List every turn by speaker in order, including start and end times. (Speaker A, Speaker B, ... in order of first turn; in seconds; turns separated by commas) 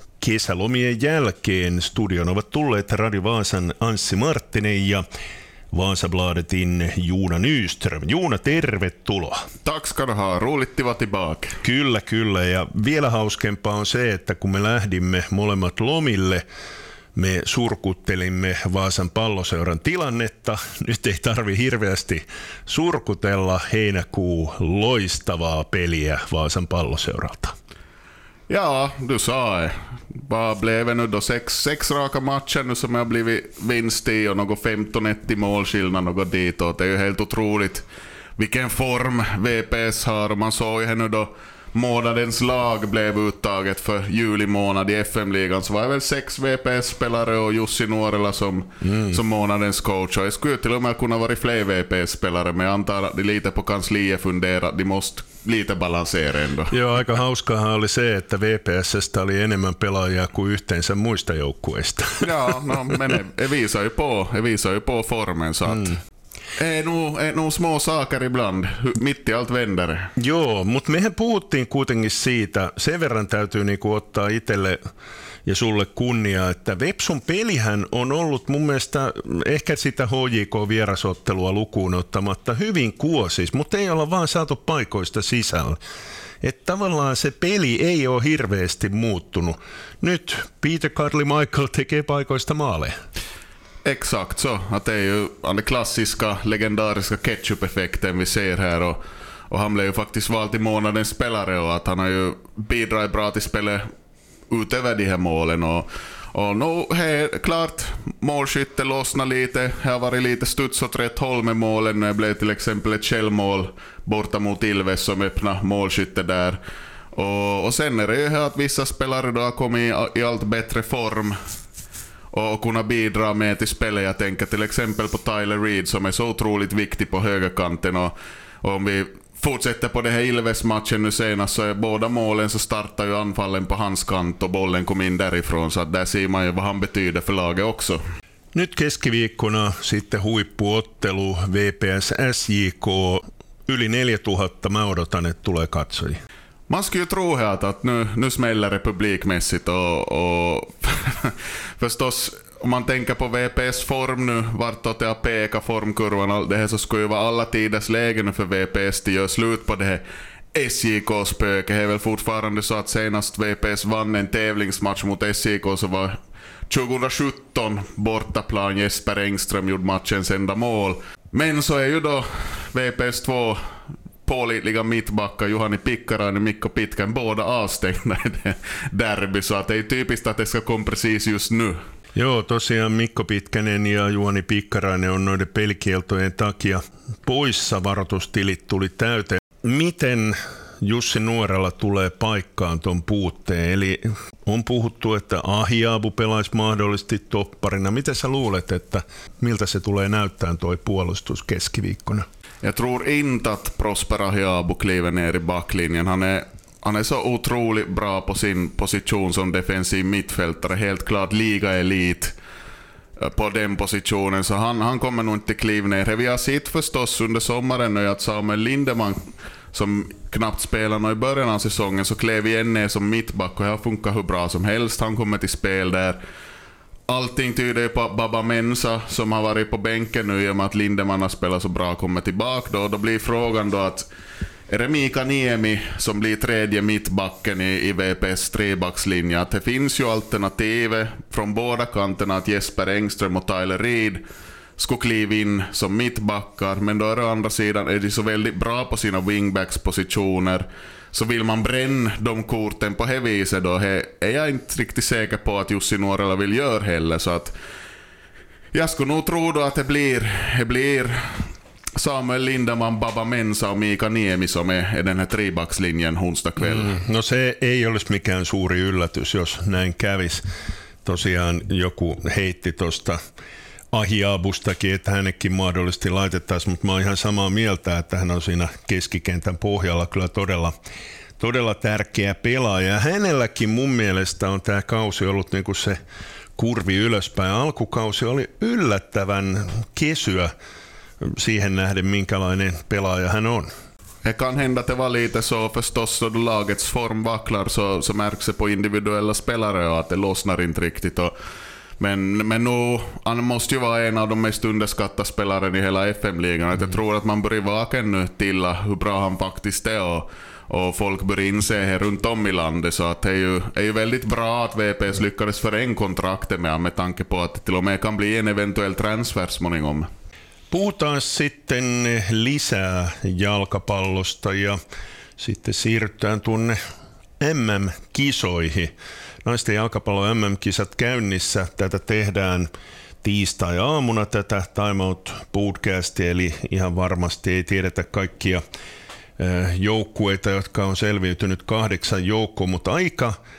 Speaker A: 0.2-5.0, Speaker A: 5.7-9.4, Speaker B: 9.6-11.6, Speaker A: 11.6-16.4, Speaker A: 17.1-27.5, Speaker B: 28.5-37.8, Speaker B: 38.4-56.8, Speaker A: 48.8-49.2, Speaker A: 56.7-62.4, Speaker B: 62.2-66.0, Speaker B: 66.6-70.1, Speaker A: 70.2-74.8, Speaker A: 75.5-85.8, Speaker A: 86.4-92.9, Speaker B: 93.8-99.0, Speaker B: 99.5-103.8, Speaker B: 104.5-116.6, Speaker B: 117.1-121.4, Speaker B: 122.3-128.1, Speaker B: 128.6-138.0, Speaker A: 138.5-146.2, Speaker B: 146.7-160.0, Speaker B: 160.5-166.2, Speaker B: 166.7-173.6, Speaker B: 174.2-181.8, Speaker A: 182.1-202.2, Speaker B: 202.6-212.3, Speaker B: 213.2-226.2, Speaker B: 227.1-234.1, Speaker B: 234.7-244.2, Speaker B: 244.8-257.5, Speaker B: 258.7-266.9, Speaker A: 266.6-270.4, Speaker A: 271.1-273.2, Speaker A: 273.9-280.7, Speaker A: 281.4-286.0, Speaker A: 286.6-290.5, Speaker A: 291.2-293.7, Speaker B: 294.2-301.3, Speaker B: 302.0-320.1, Speaker A: 320.7-324.8, Speaker A: 325.4-326.8, Speaker A: 327.4-328.9, Speaker A: 329.4-332.7, Speaker A: 333.2-338.6, Speaker A: 339.4-343.4